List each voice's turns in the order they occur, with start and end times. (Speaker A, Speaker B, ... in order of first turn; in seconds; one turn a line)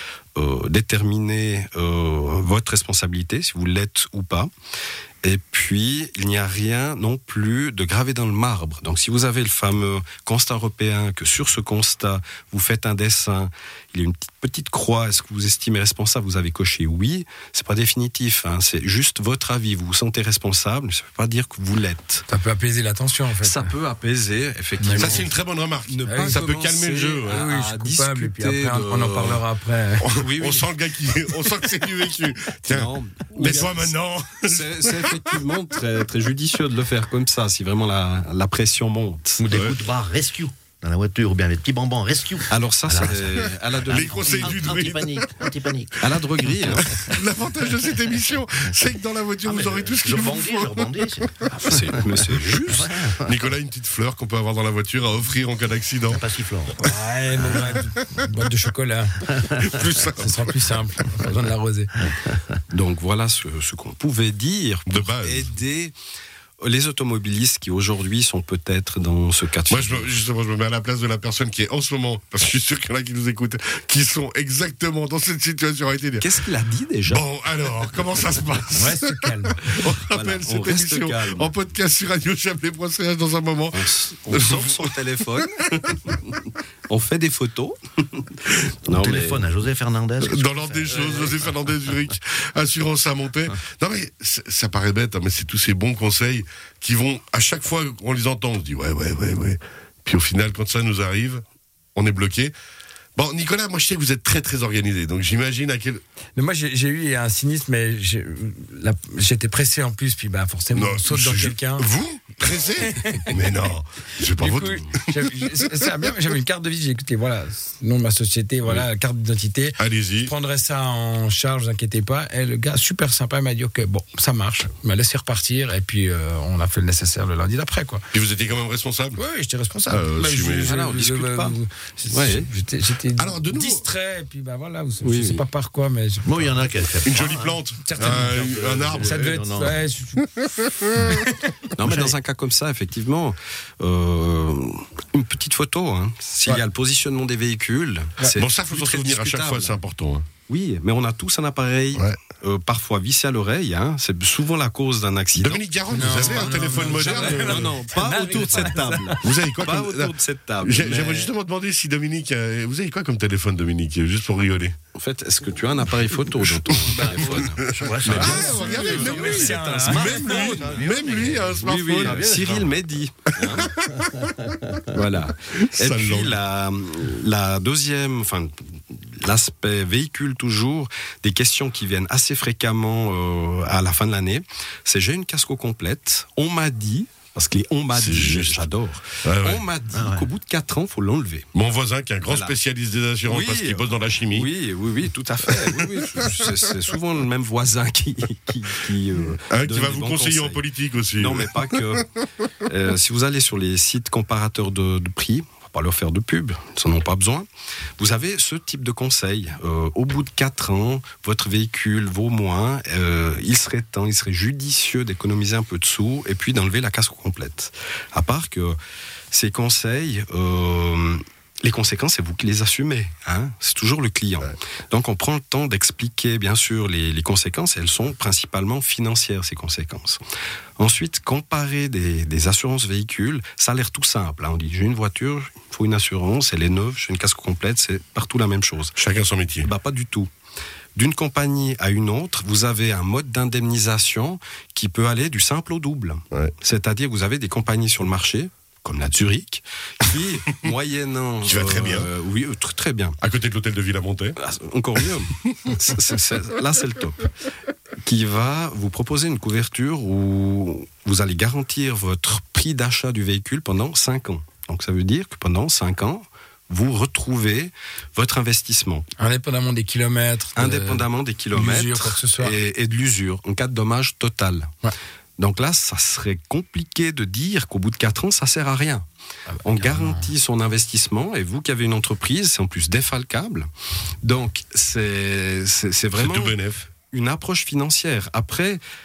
Speaker A: 0.4-4.5
Speaker A: 5.2-22.2
Speaker B: 22.3-23.8
Speaker A: 23.4-25.3
Speaker B: 24.8-25.3
Speaker C: 24.9-27.5
Speaker A: 25.9-29.4
Speaker B: 26.0-26.5
Speaker B: 27.3-30.1
Speaker C: 30.0-35.4
Speaker A: 30.2-31.2
Speaker A: 32.6-39.5
Speaker D: 39.4-46.2
Speaker C: 39.5-39.8
Speaker A: 42.5-44.6
Speaker C: 43.9-45.3
Speaker A: 46.0-47.1
Speaker C: 46.8-50.9
Speaker D: 49.4-53.4
Speaker A: 51.5-53.0
Speaker C: 53.2-56.3
Speaker D: 56.1-56.8
Speaker B: 56.8-62.1
Speaker C: 59.5-60.6
Speaker A: 62.7-65.9
Speaker C: 64.9-65.5
Speaker A: 66.6-70.1
Speaker C: 69.7-76.4
Speaker A: 76.2-77.2
Speaker C: 77.1-85.0
Speaker B: 78.7-79.9
Speaker A: 80.1-81.5
Speaker A: 83.7-89.7
Speaker D: 88.9-91.5
Speaker C: 90.2-101.4
Speaker C: 102.0-102.5
Speaker C: 103.2-106.0
Speaker B: 106.4-111.9
Speaker C: 110.7-115.6
Speaker B: 112.5-113.5
Speaker B: 114.4-128.1
Speaker C: 119.8-120.3
Speaker C: 128.1-129.2
Speaker B: 129.2-136.7
Speaker C: 129.9-130.8
Speaker A: 130.7-131.6
Speaker A: 132.1-132.5
Speaker C: 133.2-133.9
Speaker A: 135.0-135.4
Speaker D: 136.2-139.8
Speaker C: 137.0-139.4
Speaker B: 137.8-141.6
Speaker A: 141.8-149.8
Speaker D: 141.8-142.2
Speaker C: 148.4-150.3
Speaker A: 150.5-156.5
Speaker C: 151.9-152.2
Speaker C: 155.4-157.8
Speaker B: 155.9-159.3
Speaker A: 157.2-161.3
Speaker C: 159.2-164.8
Speaker A: 164.9-168.5
Speaker C: 166.1-172.6
Speaker D: 166.9-172.8
Speaker B: 168.3-170.9
Speaker A: 169.4-170.8
Speaker A: 171.6-173.8
Speaker C: 173.4-174.0
Speaker D: 173.9-174.8
Speaker A: 174.9-191.5
Speaker C: 175.5-176.4
Speaker C: 187.9-188.7
Speaker C: 189.2-189.7
Speaker D: 189.9-190.3
Speaker C: 191.5-194.5
Speaker A: 192.3-192.6
Speaker A: 193.3-202.1
Speaker C: 199.5-202.0
Speaker A: 202.7-207.5
Speaker A: 208.0-218.8
Speaker A: 219.3-230.2
Speaker A: 230.8-239.0
Speaker C: 239.0-239.7
Speaker A: 239.6-240.3
Speaker A: 241.0-253.2
Speaker C: 251.4-252.1
Speaker C: 253.2-254.4
Speaker A: 254.4-257.3
Speaker A: 258.1-269.1
Speaker B: 269.2-272.6
Speaker A: 270.6-274.7
Speaker A: 275.4-279.1
Speaker B: 279.5-280.3
Speaker A: 279.6-283.7
Speaker A: 284.2-288.8
Speaker C: 286.1-286.9